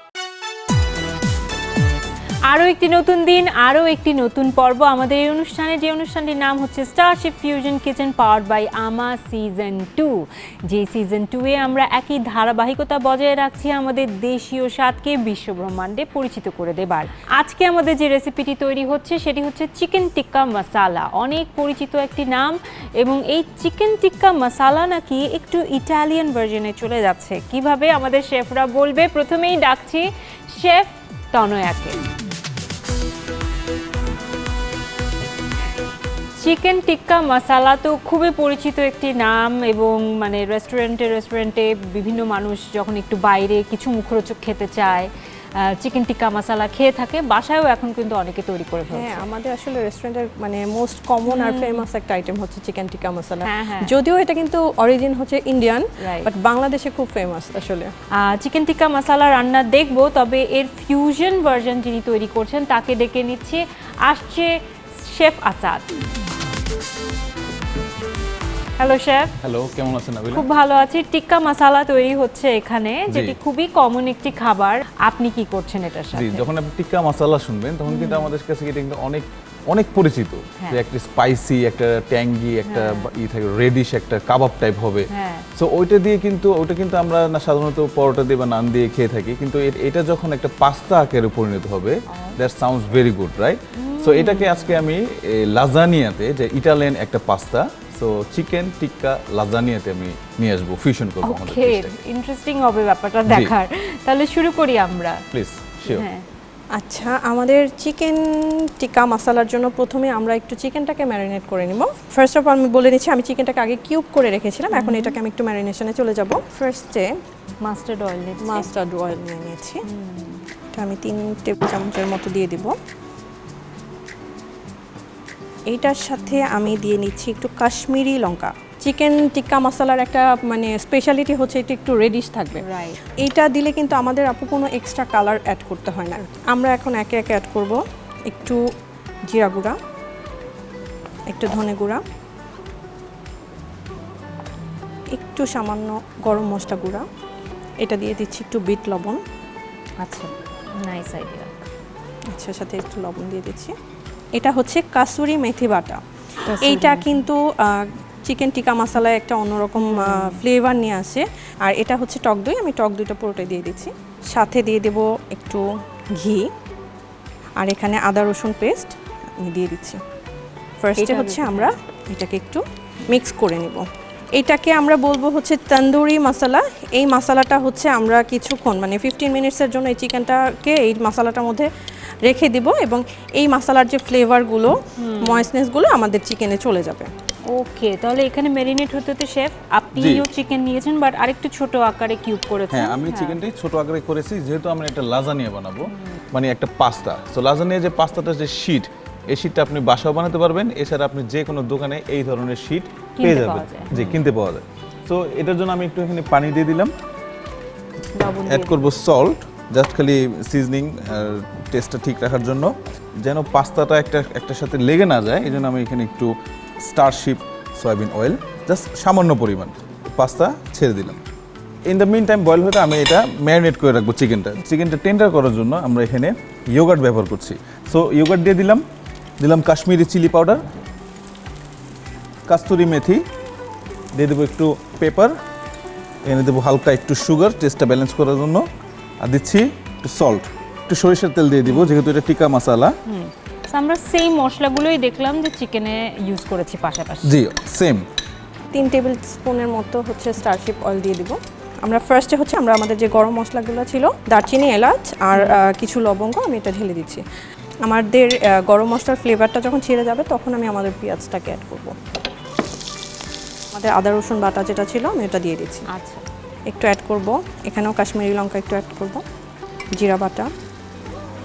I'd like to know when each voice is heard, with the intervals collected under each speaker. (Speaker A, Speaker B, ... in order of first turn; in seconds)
Speaker A: 2.5-32.0, 36.4-45.1, 45.6-49.2, 51.3-51.8, 53.4-53.9, 56.0-56.3, 58.2-65.8, 68.8-69.3, 70.3-76.5, 77.9-78.3, 82.7-83.1, 85.1-85.5, 92.1-92.4, 93.7-94.8, 101.2-105.2, 105.9-106.2, 114.7-115.2, 117.6-118.7, 119.8-120.4, 132.6-133.0, 150.0-151.6, 156.4-157.2, 159.8-160.4, 171.0-171.7, 185.0-185.5, 187.5-193.4, 195.9-196.2, 203.2-204.2, 208.1-208.8, 241.7-241.9, 243.1-247.3, 255.3-255.6, 265.9-266.2
Speaker B: 48.9-57.9, 106.7-117.1, 118.4-119.8, 120.7-122.7, 125.7-132.6, 133.2-138.6, 139.3-139.8, 141.3-142.0, 145.1-147.1, 147.8-149.2, 152.3-153.7, 154.3-156.0, 156.6-165.6, 166.2-166.4, 167.6-170.0, 170.8-173.8, 174.3-181.7, 182.2-187.1, 248.7-257.2, 257.9-261.9, 263.7-265.8, 266.7-269.2, 269.9-270.5
Speaker C: 69.4-70.5, 73.1-73.3, 76.1-102.0, 103.3-103.5, 105.3-106.0, 189.9-190.2, 192.7-206.9, 208.4-221.2, 221.9-228.8, 229.4-230.6, 232.5-233.2, 234.1-235.3, 236.2-238.6, 239.2-242.9, 247.2-248.0